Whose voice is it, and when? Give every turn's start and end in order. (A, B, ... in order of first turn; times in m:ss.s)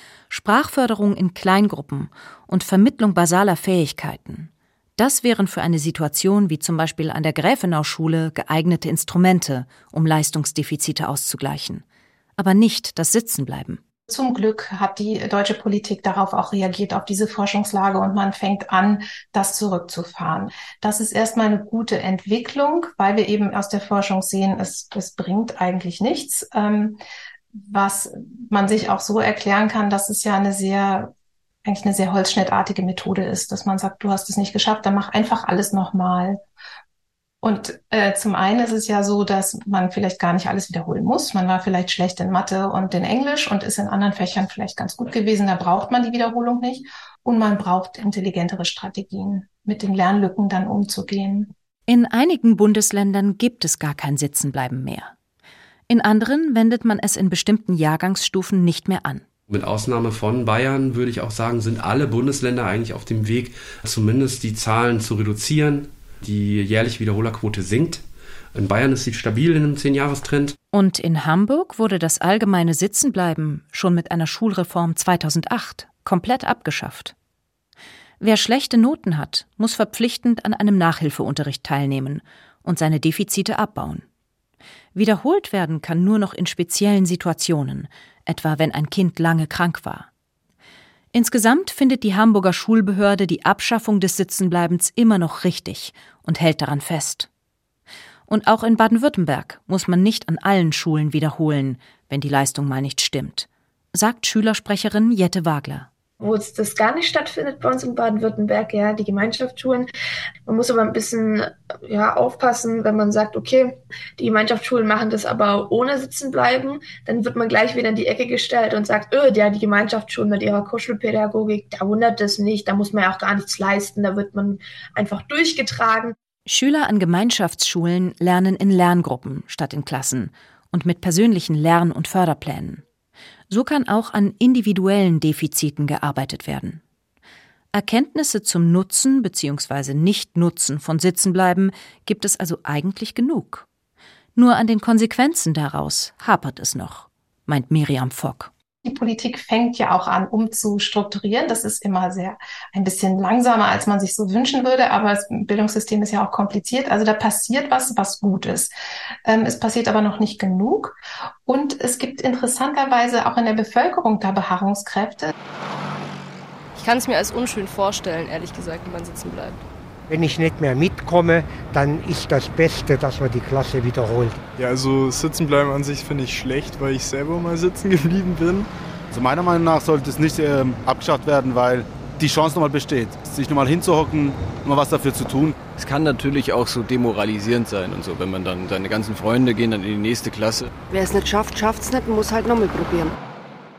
0:00.3-0:11.8 A
0:12.4-0:13.8 A
0:14.1-0:27.0 B
0:27.6-0:31.1 B
0:31.6-0:36.4 B
0:37.4-0:51.5 B
0:51.9-0:55.1 A
0:55.9-0:59.2 A
0:59.5-1:08.0 C
1:08.6-1:10.6 C
1:10.7-1:17.1 A
1:18.2-1:24.0 A
1:25.0-1:30.1 A
1:31.1-1:37.3 A
1:38.3-1:45.9 A
1:46.2-1:49.9 D
1:50.5-2:06.2 D
2:06.5-2:12.8 A
2:13.5-2:16.8 A
2:17.7-2:23.7 A
2:24.4-2:28.5 A
2:28.8-2:38.7 B
2:39.2-2:45.3 B
2:46.8-2:49.6 E
2:50.1-2:54.4 F
2:54.6-2:58.7 G
2:59.1-3:05.7 H
3:05.7-3:10.7 I
3:10.9-3:13.1 J